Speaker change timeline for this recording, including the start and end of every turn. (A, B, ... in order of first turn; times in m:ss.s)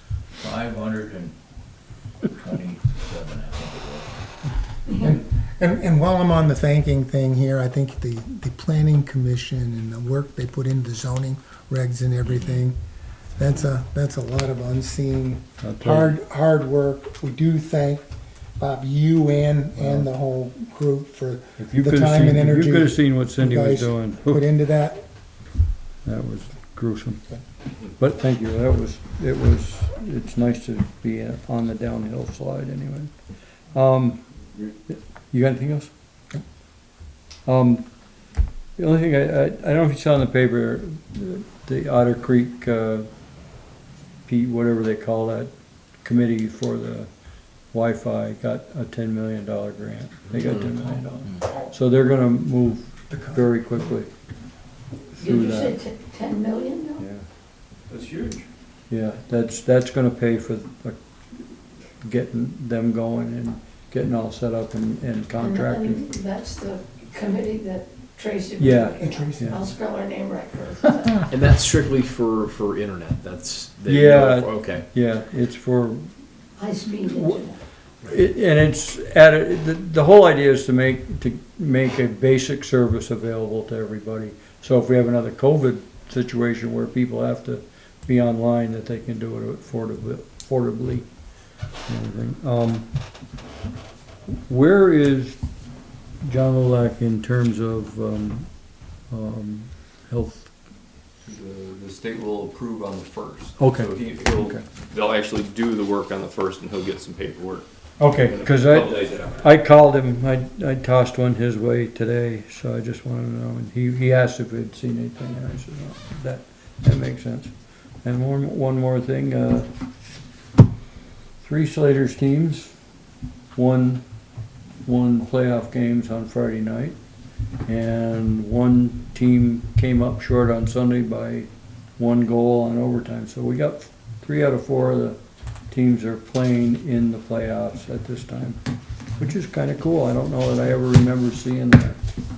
0:00.4-0:01.3 A
0:02.4-0:04.1 A
0:04.9-0:12.8 B
0:13.4-0:18.0 B
0:15.6-0:16.2 C
0:18.6-0:25.0 B
0:19.8-0:20.1 C
0:21.6-0:24.5 C
0:26.0-0:27.2 C
0:28.0-0:33.1 C
0:33.7-0:35.9 C
0:37.5-0:37.8 C
0:38.8-0:43.1 C
0:44.3-0:45.5 C
0:46.0-0:47.1 C
0:47.7-0:54.1 C
0:53.1-0:53.5 B
0:55.2-0:55.8 C
0:55.2-0:57.0 D
0:57.0-0:57.2 C
0:57.9-0:58.5 E
0:58.9-1:06.1 C
1:05.4-1:11.2 D
1:08.6-1:09.7 C
1:09.0-1:09.8 B
1:11.3-1:14.8 F
1:13.8-1:16.0 C
1:16.6-1:17.6 D
1:18.0-1:31.1 C
1:31.9-1:32.9 C
1:34.3-1:35.4 C
1:36.2-1:38.5 C
1:39.1-1:40.5 C
1:41.2-1:49.5 E
1:43.6-1:44.6 C
1:48.0-1:57.5 C
1:58.0-1:59.7 C
2:01.4-2:02.7 C
2:03.6-2:04.0 C
2:04.8-2:07.0 C
2:07.7-2:11.5 C
2:12.0-2:15.2 C
2:15.7-2:18.6 C
2:19.2-2:22.0 C